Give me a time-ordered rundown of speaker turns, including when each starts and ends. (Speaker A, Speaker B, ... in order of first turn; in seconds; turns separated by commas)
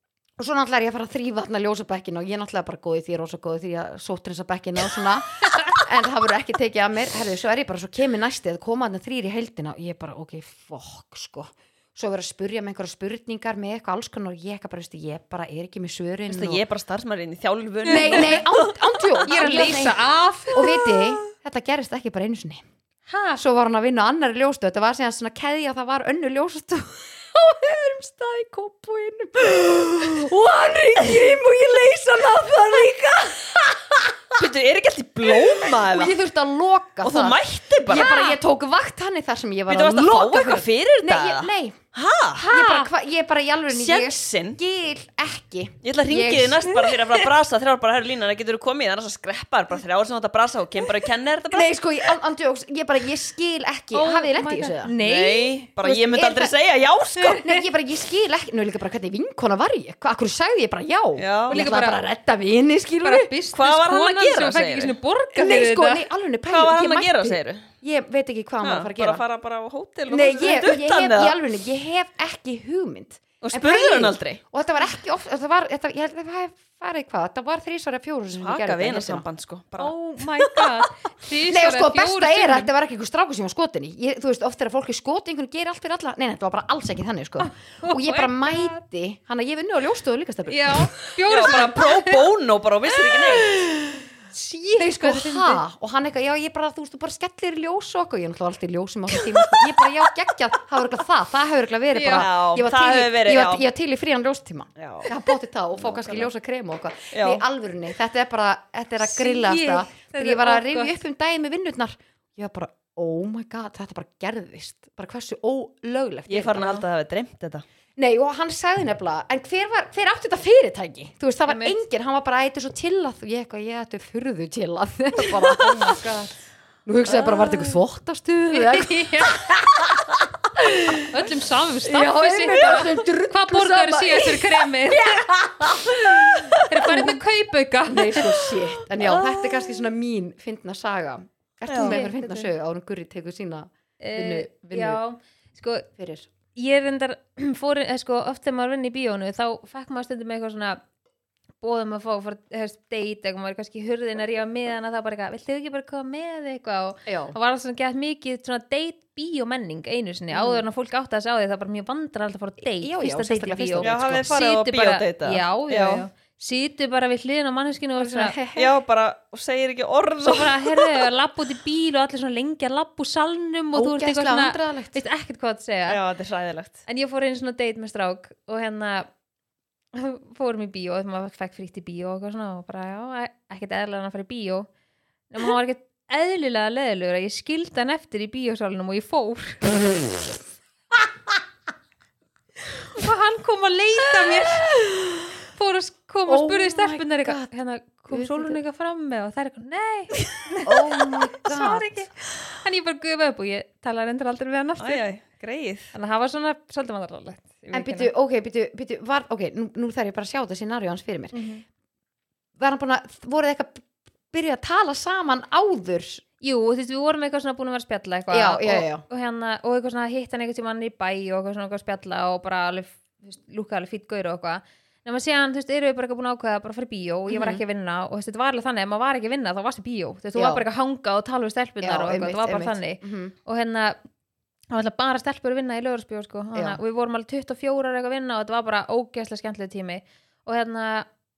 Speaker A: 0.4-16.6, Speaker B: 16.3-19.7, Speaker A: 17.9-22.6, Speaker C: 17.9-18.4, Speaker C: 19.2-20.6, Speaker C: 23.1-23.4, Speaker A: 23.4-34.4, Speaker B: 34.3-36.1, Speaker A: 35.2-41.8, Speaker B: 37.0-38.1, Speaker C: 37.9-38.4, Speaker B: 39.7-42.5, Speaker A: 42.4-47.2, Speaker C: 42.4-42.9, Speaker B: 43.7-44.6, Speaker B: 45.8-52.1, Speaker A: 51.5-54.9, Speaker C: 53.9-55.5, Speaker B: 54.9-57.4, Speaker A: 55.8-56.5, Speaker C: 57.2-57.6, Speaker A: 57.3-63.3, Speaker B: 61.2-61.6, Speaker C: 61.5-62.0, Speaker C: 63.0-66.0, Speaker B: 63.5-65.0, Speaker A: 65.3-69.2, Speaker B: 66.5-67.7, Speaker B: 68.6-71.4, Speaker A: 70.1-79.2, Speaker B: 73.4-74.4, Speaker B: 78.3-80.7, Speaker C: 79.8-82.7, Speaker A: 81.5-90.9, Speaker C: 87.4-88.8, Speaker C: 90.5-92.2, Speaker B: 91.3-93.5, Speaker A: 93.5-94.1, Speaker C: 94.3-95.6, Speaker A: 94.8-116.8, Speaker B: 99.2-99.6, Speaker C: 101.9-102.3, Speaker B: 102.1-103.6, Speaker B: 104.8-105.1, Speaker B: 105.8-106.3, Speaker B: 107.1-107.4, Speaker C: 109.0-110.9, Speaker B: 116.3-117.6, Speaker A: 118.0-126.0, Speaker C: 121.5-121.8, Speaker C: 125.5-126.3, Speaker A: 126.9-131.1, Speaker B: 127.1-127.8, Speaker C: 128.5-129.4, Speaker C: 131.1-135.2, Speaker A: 131.8-137.2, Speaker C: 136.7-138.3, Speaker A: 137.9-145.0, Speaker B: 139.0-139.8, Speaker B: 141.7-142.0, Speaker C: 141.7-142.5, Speaker C: 144.0-145.9, Speaker A: 146.0-146.3, Speaker C: 146.5-150.8, Speaker C: 151.6-168.4, Speaker A: 157.1-157.4, Speaker A: 160.3-160.6, Speaker A: 162.6-164.3, Speaker B: 163.8-166.1, Speaker A: 168.0-168.7, Speaker B: 168.5-171.1, Speaker C: 170.2-176.0, Speaker A: 173.7-175.0, Speaker B: 175.9-176.8, Speaker C: 176.9-179.1, Speaker C: 179.9-184.7, Speaker C: 185.3-189.6, Speaker C: 192.9-194.7, Speaker A: 194.3-195.3, Speaker C: 195.5-205.0, Speaker A: 196.3-197.5, Speaker A: 198.1-198.6, Speaker A: 200.6-202.0, Speaker B: 204.8-205.9, Speaker C: 205.9-208.1, Speaker A: 207.7-211.4, Speaker C: 211.3-211.6, Speaker A: 212.6-216.2, Speaker C: 216.4-234.0, Speaker A: 218.3-219.0, Speaker A: 227.3-227.6, Speaker A: 230.3-230.6, Speaker A: 231.8-233.3, Speaker C: 234.7-241.1, Speaker A: 236.5-236.8